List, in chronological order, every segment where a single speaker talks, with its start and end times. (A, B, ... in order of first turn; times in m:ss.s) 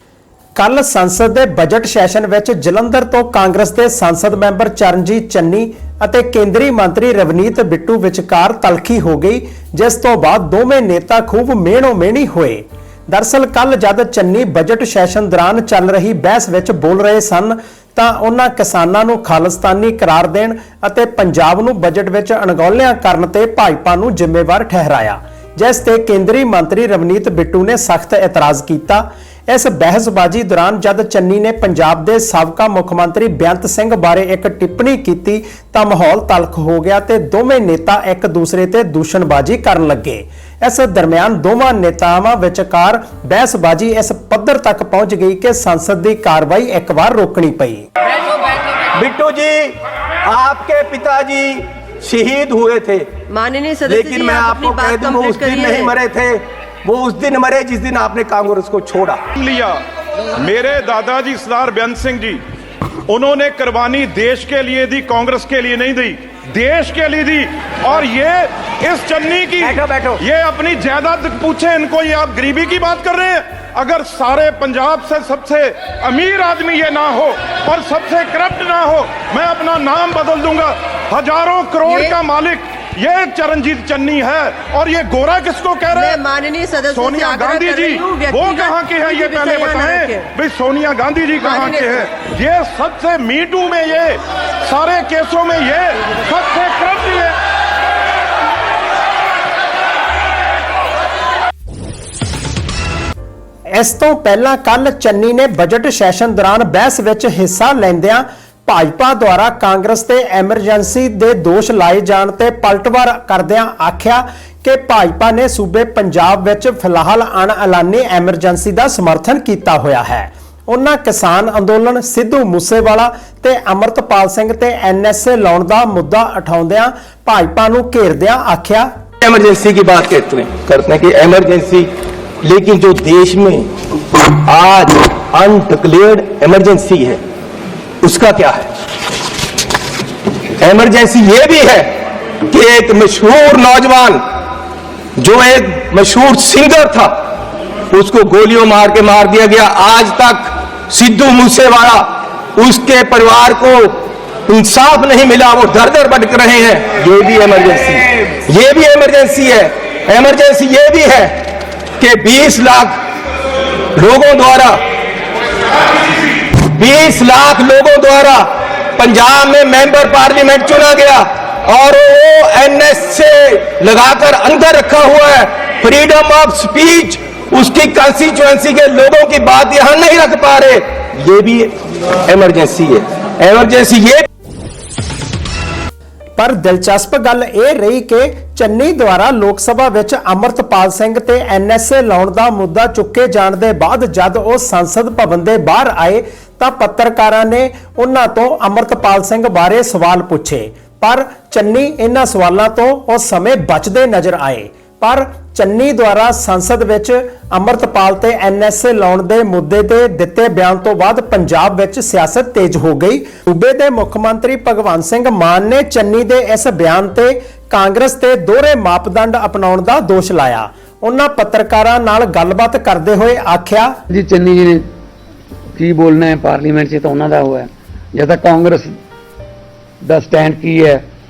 0:00.6-0:47.8 A
0:48.9-0:49.7 B
0:50.2-0:53.1 B
0:53.3-0:55.9 C
0:53.9-0:59.2 B
0:59.3-0:59.8 D
1:00.4-1:02.4 D
1:03.1-1:26.2 D
1:09.7-1:10.2 B
1:21.8-1:22.2 C
1:25.9-1:30.3 C
1:26.9-1:37.4 D
1:31.4-1:32.0 C
1:43.7-2:08.9 A
2:09.2-2:11.9 B
2:12.4-2:13.7 B
2:14.3-2:17.2 B
2:18.0-2:18.7 B
2:20.6-2:21.9 B
2:22.5-2:24.2 B
2:25.2-2:27.1 B
2:27.9-2:41.4 B
2:42.0-2:43.0 B
2:44.0-2:44.8 B
2:46.7-3:01.7 B
3:02.3-3:04.2 B
3:06.4-3:43.9 A
3:44.1-3:44.8 E
3:45.8-3:48.9 E
3:50.0-3:51.0 E